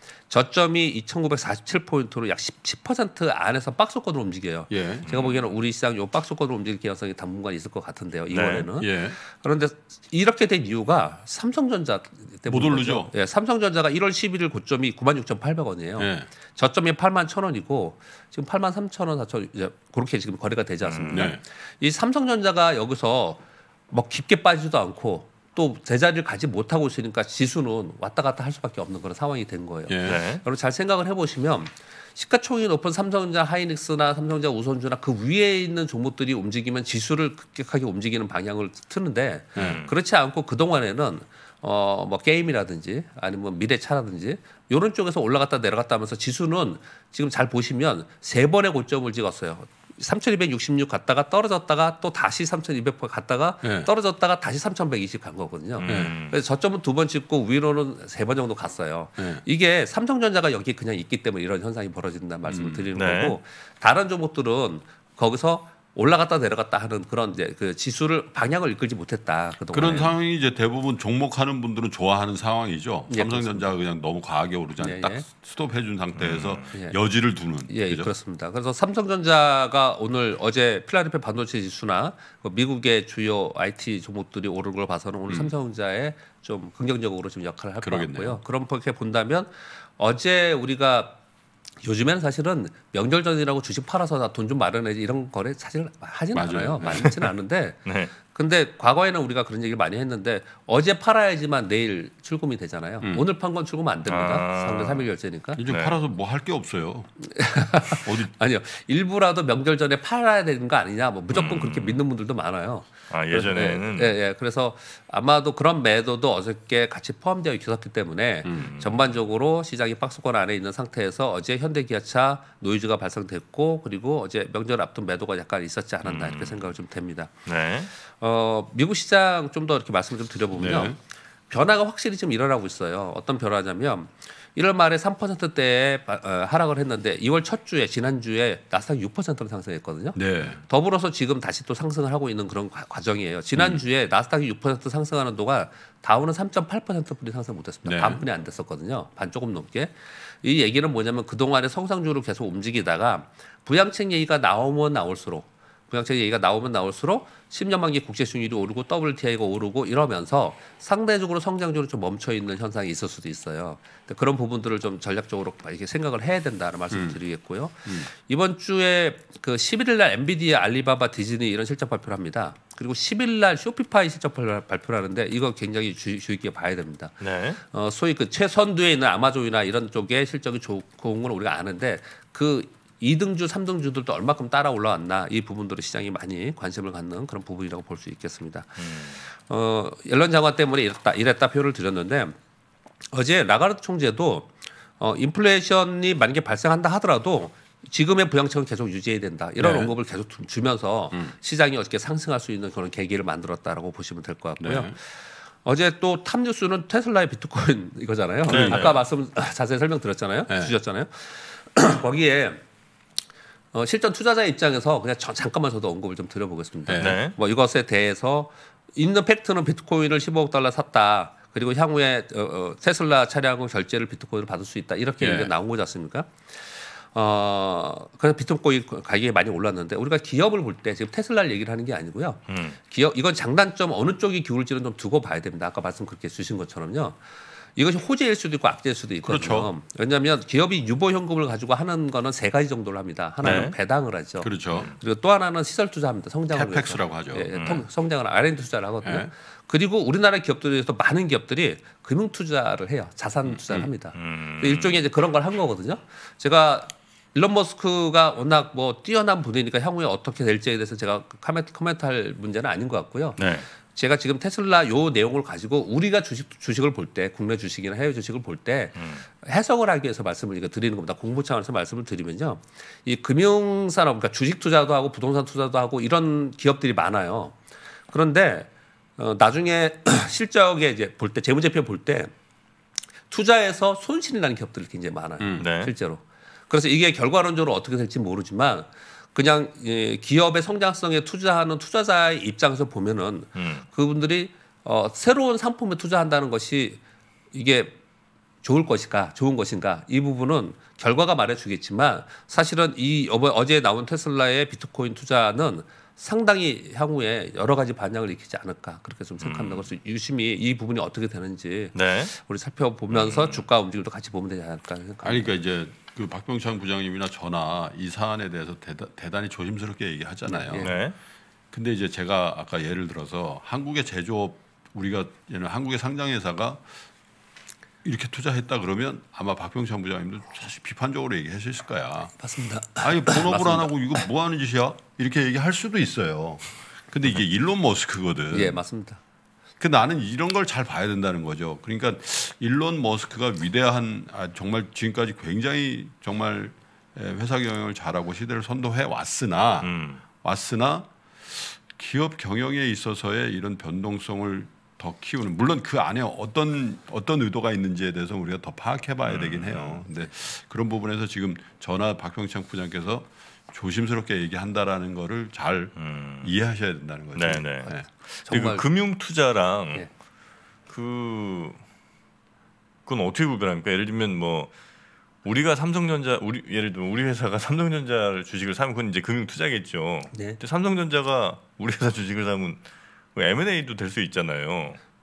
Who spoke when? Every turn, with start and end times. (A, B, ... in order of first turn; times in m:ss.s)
0:00.3-1:10.1 A
0:04.7-0:05.1 B
0:05.1-0:05.4 C
0:08.3-0:08.7 C
0:08.8-0:09.2 B
0:12.5-0:13.1 B
0:16.0-0:16.3 B
0:20.8-0:21.4 C
0:21.1-0:21.4 B
0:29.9-0:30.2 B
0:30.0-0:30.4 C
0:39.6-0:39.8 B
0:39.6-0:39.9 C
0:53.6-0:53.9 B
0:55.8-0:56.4 C
0:55.8-0:56.2 B
0:59.2-0:59.4 B
1:02.4-1:02.9 B
1:02.9-1:03.4 C
1:09.7-1:18.1 B
1:13.1-1:13.7 A
1:14.8-1:15.2 A
1:16.2-1:16.7 C
1:17.7-1:31.2 A
1:27.8-1:28.4 B
1:31.8-1:45.6 A
1:36.3-1:37.3 B
1:37.8-1:38.1 C
1:44.1-1:45.1 C
1:45.6-1:47.1 B
1:45.7-1:46.0 C
1:47.2-2:07.4 A
1:47.9-1:48.3 B
1:51.3-1:52.0 C
1:53.1-1:54.1 C
1:58.4-1:58.7 B
1:58.6-1:59.1 C
2:06.0-2:06.7 C
2:07.4-2:07.9 C
2:08.0-2:11.0 A
2:10.5-2:11.0 B
2:11.5-2:57.1 A
2:20.1-2:20.6 B
2:23.6-2:23.8 B
2:27.8-2:28.2 B
2:46.9-2:47.2 B
2:57.2-2:57.6 C
2:57.7-3:12.3 A
3:08.8-3:09.2 C
3:13.1-3:32.6 A
3:19.6-3:19.9 B
3:24.6-3:25.0 B
3:28.4-3:28.9 B
3:28.5-3:29.0 C
3:30.5-3:30.7 B
3:33.7-3:57.2 A
3:36.8-3:37.2 B
3:37.0-3:37.4 C
3:45.2-3:45.5 B
3:52.5-3:52.8 C
3:57.8-4:37.6 A
3:59.2-3:59.7 B
4:03.4-4:03.7 B
4:03.4-4:03.7 C
4:04.4-4:04.9 B
4:06.5-4:07.5 B
4:07.6-4:07.8 C
4:09.0-4:09.3 B
4:13.4-4:13.9 B
4:14.1-4:15.0 C
4:23.4-4:23.6 C
4:29.0-4:29.2 C
4:38.1-4:42.3 A
4:43.3-4:57.0 A
4:45.4-4:45.7 B
4:45.6-4:45.9 C
4:53.6-4:53.8 C
4:57.5-4:58.0 A
4:58.6-5:15.5 A
5:09.4-5:09.9 C
5:11.9-5:12.3 C
5:13.1-5:13.6 C
5:15.2-5:21.0 B
5:20.5-5:20.9 A
5:20.8-5:21.2 C
5:21.7-5:26.8 B
5:28.0-5:32.3 B
5:32.4-5:34.2 A
5:33.0-5:38.8 B
5:38.5-5:39.2 A
5:39.8-6:08.0 B
5:49.8-5:50.2 C
5:59.2-6:00.0 C
6:06.0-6:06.5 C
6:07.3-6:10.1 C
6:08.4-6:08.8 A
6:10.9-6:11.8 C
6:13.0-6:14.7 C
6:15.4-6:22.8 C
6:20.3-6:20.6 A
6:23.3-6:25.0 C